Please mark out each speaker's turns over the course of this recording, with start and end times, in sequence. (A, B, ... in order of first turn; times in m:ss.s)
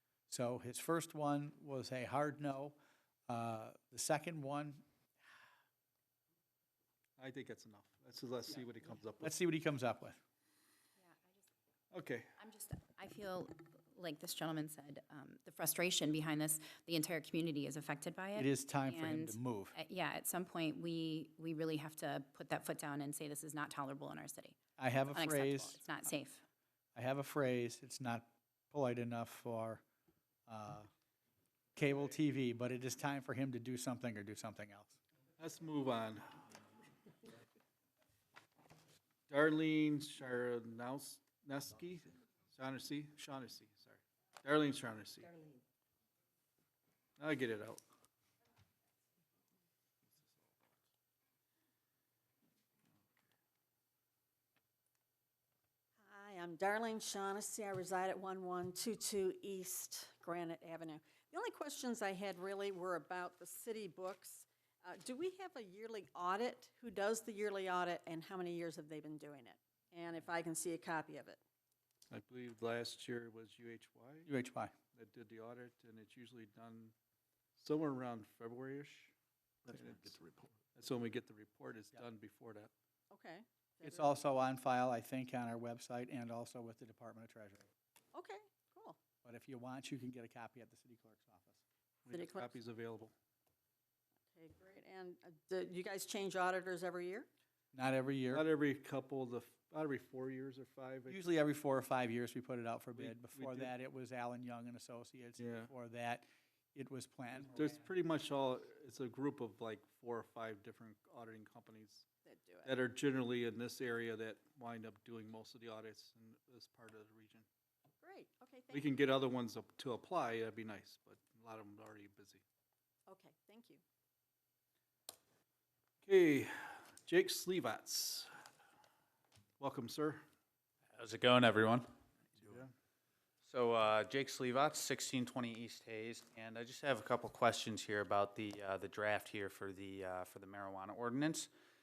0:00.3-0:02.8 A
0:03.3-0:04.8 A
0:07.2-0:09.3 B
0:09.2-0:10.2 A
0:11.0-0:11.5 C
0:11.9-0:12.3 B
0:12.4-0:26.4 C
0:18.4-0:19.8 A
0:24.8-0:25.8 A
0:27.0-0:29.8 A
0:30.5-0:30.9 A
0:31.8-0:35.0 A
0:35.4-0:36.4 B
0:39.3-0:45.5 B
0:47.2-0:47.8 B
0:56.0-1:11.4 D
1:12.1-1:14.3 B
1:14.3-1:14.7 A
1:14.9-1:17.0 B
1:17.6-1:19.1 B
1:19.7-1:20.2 B
1:20.7-1:22.7 B
1:23.1-1:24.1 D
1:23.8-1:27.7 A
1:28.1-1:29.0 D
1:29.2-1:31.6 A
1:32.0-1:33.1 B
1:32.1-1:32.5 D
1:34.3-1:37.3 D
1:37.7-1:38.4 A
1:38.3-1:41.2 B
1:41.1-1:47.8 A
1:43.0-1:43.7 B
1:45.4-1:45.7 B
1:47.4-1:52.1 B
1:52.2-1:52.7 D
1:52.6-1:57.5 B
1:58.0-1:58.8 D
1:58.7-2:02.4 B
2:03.1-2:03.8 D
2:06.0-2:08.3 B
2:09.6-2:10.2 B
2:11.0-2:11.9 E
2:12.4-2:12.7 B
2:13.4-2:21.5 E